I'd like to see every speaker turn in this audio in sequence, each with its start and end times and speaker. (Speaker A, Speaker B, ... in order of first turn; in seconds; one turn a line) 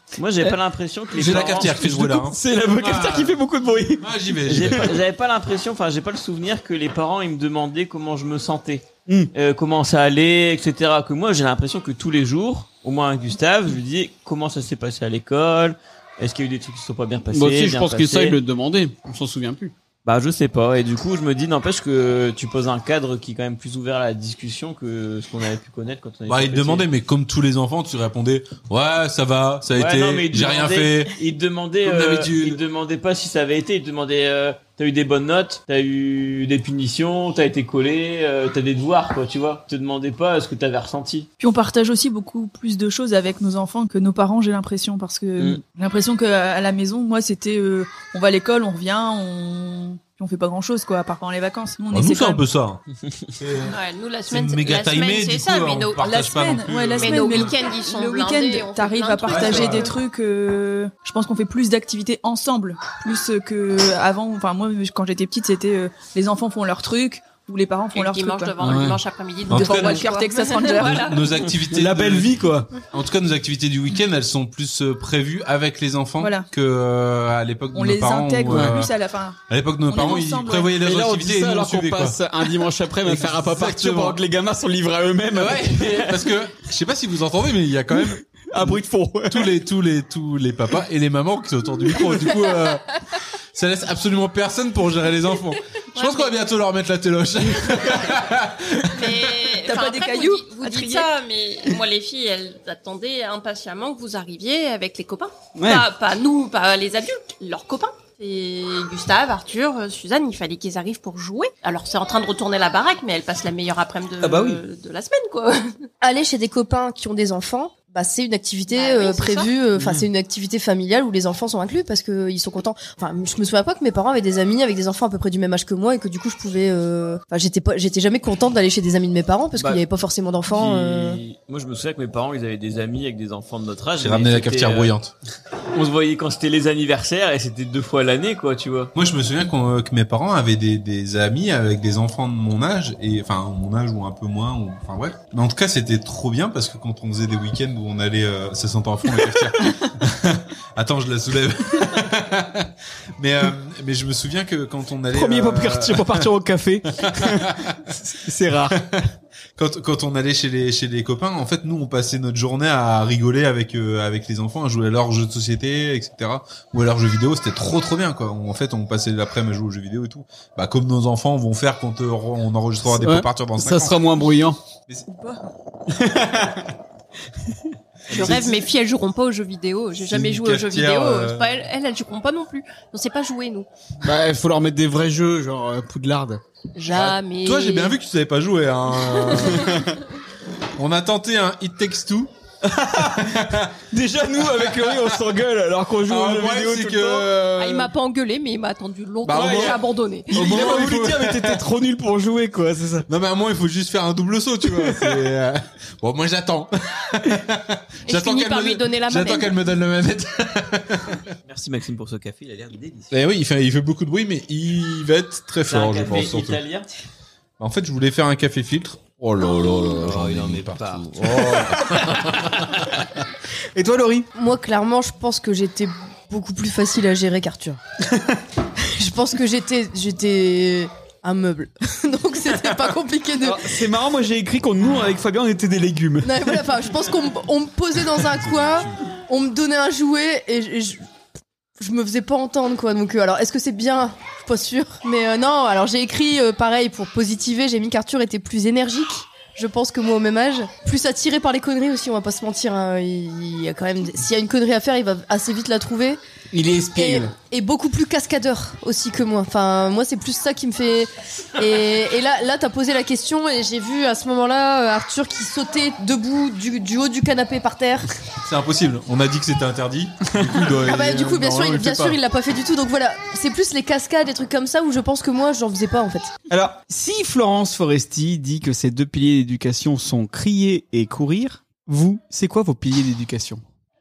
Speaker A: 0.2-1.8
Speaker B: 1.2-4.0
Speaker C: 1.2-3.4
Speaker C: 4.0-4.9
Speaker A: 4.5-18.4
Speaker B: 17.3-19.7
Speaker A: 20.1-26.9
Speaker C: 26.3-31.1
Speaker A: 29.7-41.3
Speaker C: 31.8-32.6
Speaker D: 41.4-52.4
Speaker C: 51.9-52.8
Speaker C: 53.4-53.8
Speaker E: 53.7-56.1
Speaker C: 54.3-57.5
Speaker D: 56.0-68.6
Speaker E: 57.0-60.0
Speaker C: 59.3-59.9
Speaker E: 67.9-71.2
Speaker B: 68.6-69.0
Speaker C: 69.5-70.1
Speaker D: 69.5-71.2
Speaker C: 70.8-78.9
Speaker B: 71.7-72.7
Speaker D: 76.2-76.5
Speaker D: 77.7-80.7
Speaker C: 79.5-82.2
Speaker B: 80.8-86.3
Speaker C: 83.0-84.2
Speaker C: 85.3-92.8
Speaker B: 87.9-89.5
Speaker C: 93.5-99.3
Speaker E: 96.0-96.4
Speaker E: 98.9-115.8
Speaker D: 99.6-101.1
Speaker B: 105.6-105.9
Speaker B: 114.2-114.6
Speaker F: 116.0-131.2
Speaker E: 118.7-119.5
Speaker B: 119.8-120.0
Speaker A: 130.5-134.9
Speaker C: 134.0-135.1
Speaker A: 135.8-138.9
Speaker C: 139.0-156.3
Speaker B: 155.1-158.8
Speaker C: 157.0-157.8
Speaker C: 158.8-159.0
Speaker C: 159.6-174.0
Speaker B: 172.9-174.6
Speaker D: 175.1-175.4
Speaker B: 175.9-176.7
Speaker C: 178.1-178.6
Speaker E: 178.1-183.7
Speaker B: 178.1-178.4
Speaker C: 180.0-181.5
Speaker B: 184.0-186.4
Speaker E: 186.8-188.0
Speaker C: 186.9-189.8
Speaker B: 189.5-189.8
Speaker C: 190.8-192.3
Speaker B: 192.6-197.3
Speaker C: 193.2-193.7
Speaker C: 196.1-197.9
Speaker E: 197.6-200.4
Speaker C: 199.2-199.8
Speaker B: 199.3-199.8
Speaker B: 200.3-203.1
Speaker C: 200.3-201.6
Speaker C: 203.1-211.2
Speaker B: 204.7-205.1
Speaker E: 208.1-209.6
Speaker A: 211.5-213.1
Speaker C: 213.1-216.6
Speaker A: 215.7-216.9
Speaker C: 217.6-222.2
Speaker A: 219.8-223.0
Speaker B: 223.8-224.3
Speaker F: 224.3-227.8
Speaker F: 228.8-233.8
Speaker B: 233.4-236.6
Speaker F: 236.2-241.0
Speaker C: 238.4-238.9
Speaker F: 241.8-256.2
Speaker B: 256.5-257.3
Speaker F: 257.0-268.1
Speaker C: 268.4-272.2
Speaker F: 270.8-276.3
Speaker B: 276.5-283.6